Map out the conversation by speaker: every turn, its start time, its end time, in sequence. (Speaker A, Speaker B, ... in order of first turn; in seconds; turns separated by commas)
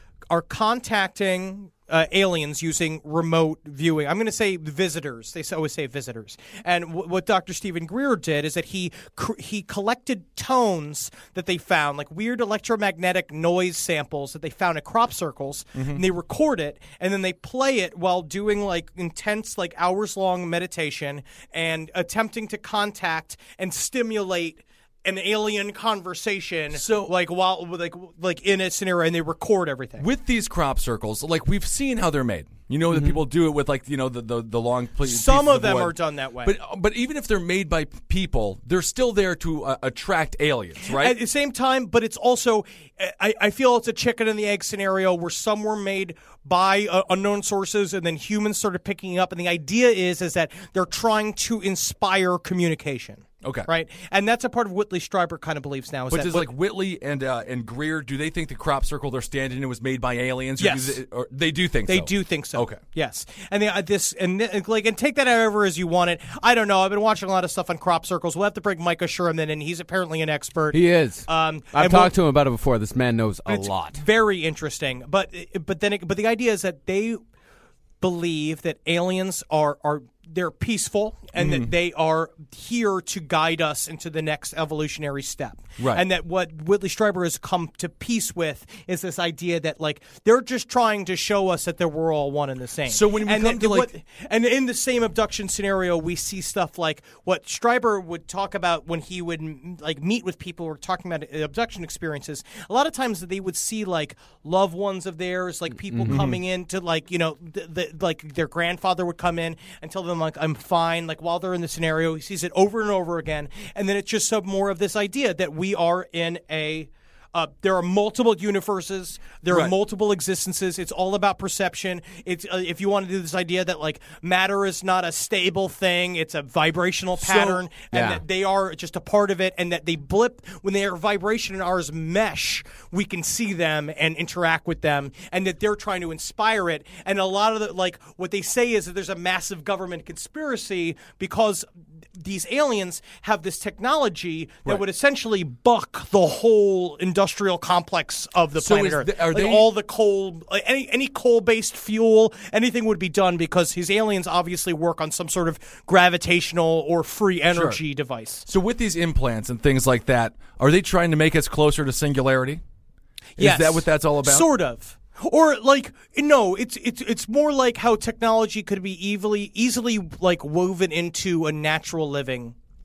Speaker A: 0.3-30.1, Speaker B: 15.8-16.0, Speaker B: 26.7-27.1, Speaker B: 30.0-41.2, Speaker A: 35.0-36.5, Speaker A: 40.9-56.5, Speaker B: 53.4-53.7, Speaker B: 56.1-62.8, Speaker A: 60.6-61.0, Speaker A: 61.9-72.2, Speaker C: 70.7-74.0, Speaker A: 73.5-77.2, Speaker A: 78.0-158.5, Speaker B: 81.4-81.7, Speaker B: 85.8-86.0, Speaker B: 92.9-93.9, Speaker C: 105.9-106.2, Speaker B: 106.1-106.4, Speaker B: 119.5-119.8, Speaker B: 127.2-127.6, Speaker C: 127.9-128.2, Speaker B: 148.6-149.7, Speaker B: 157.5-157.8, Speaker B: 158.5-162.6, Speaker A: 163.4-172.6, Speaker B: 163.4-164.5